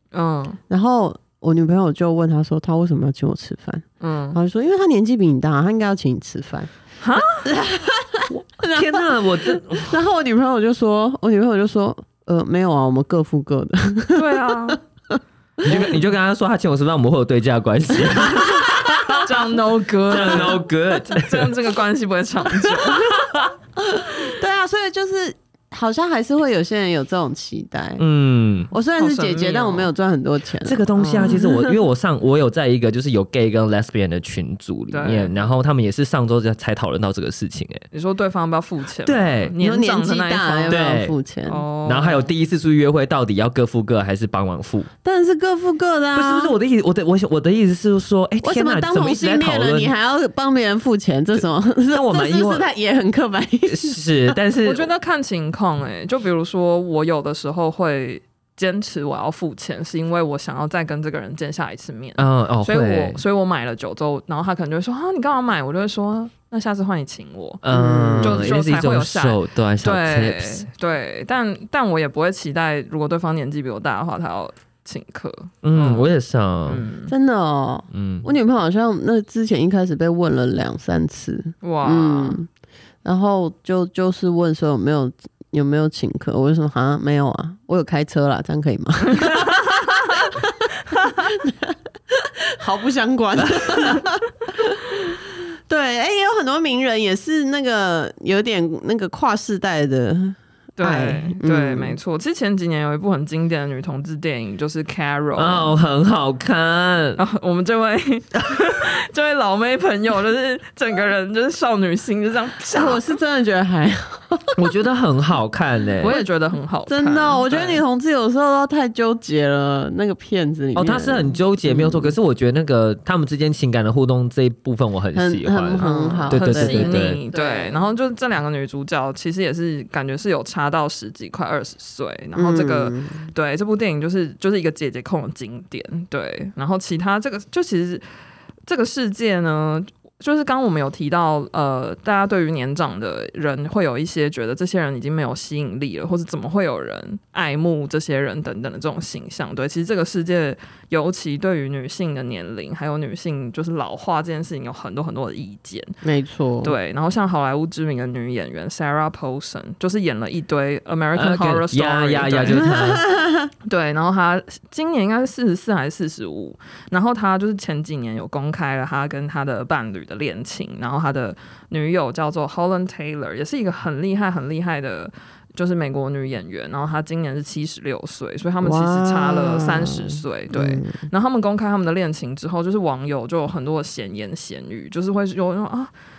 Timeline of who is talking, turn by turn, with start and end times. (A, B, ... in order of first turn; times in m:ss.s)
0:00.1-0:00.6 A
0:00.7-0:06.7 B
0:04.0-0:04.4 A
0:07.0-0:07.5 A
0:07.3-0:16.0 B
0:08.3-0:10.0 C
0:14.1-0:14.8 A
0:15.6-0:19.3 C
0:19.2-0:23.2 A
0:20.1-0:21.5 C
0:23.0-0:23.5 C
0:23.8-0:28.0 B
0:28.0-0:28.7 C
0:28.7-0:31.4 B
0:29.0-0:29.9 A
0:30.6-0:37.8 C
0:31.0-0:31.7 A
0:34.9-0:35.3 A
0:37.9-0:40.8 A
0:39.0-0:39.5 C
0:39.6-0:41.6 B
0:40.7-0:41.1 C
0:41.5-0:42.3 A
0:41.8-0:44.9 C
0:45.0-0:46.5 B
0:46.1-0:49.9 C
0:48.4-0:54.4 B
0:51.9-0:52.7 C
0:53.7-0:54.9 C
0:54.6-1:07.6 A
1:02.2-1:03.2 C
1:07.6-1:10.6 C
1:07.7-1:08.5 B
1:08.2-1:16.1 A
1:15.6-1:16.8 C
1:16.7-1:17.1 A
1:17.1-1:22.5 B
1:17.9-1:18.3 C
1:21.6-1:22.4 A
1:23.0-1:30.5 B
1:29.2-1:29.8 A
1:30.9-1:31.2 A
1:31.2-1:42.0 B
1:40.8-1:45.7 A
1:45.4-1:47.2 C
1:47.2-1:53.0 A
1:52.7-1:54.6 B
1:54.6-1:56.2 C
1:56.0-1:57.8 A
1:56.9-2:02.2 B
2:00.7-2:07.2 C
2:05.1-2:07.8 B
2:05.8-2:18.0 A
2:12.3-2:13.3 B
2:18.6-2:35.9 A
2:36.0-2:36.7 B
2:36.6-2:42.8 A
2:41.2-2:43.1 C
2:42.8-2:43.4 B
2:43.6-3:05.9 A
2:58.6-3:01.0 B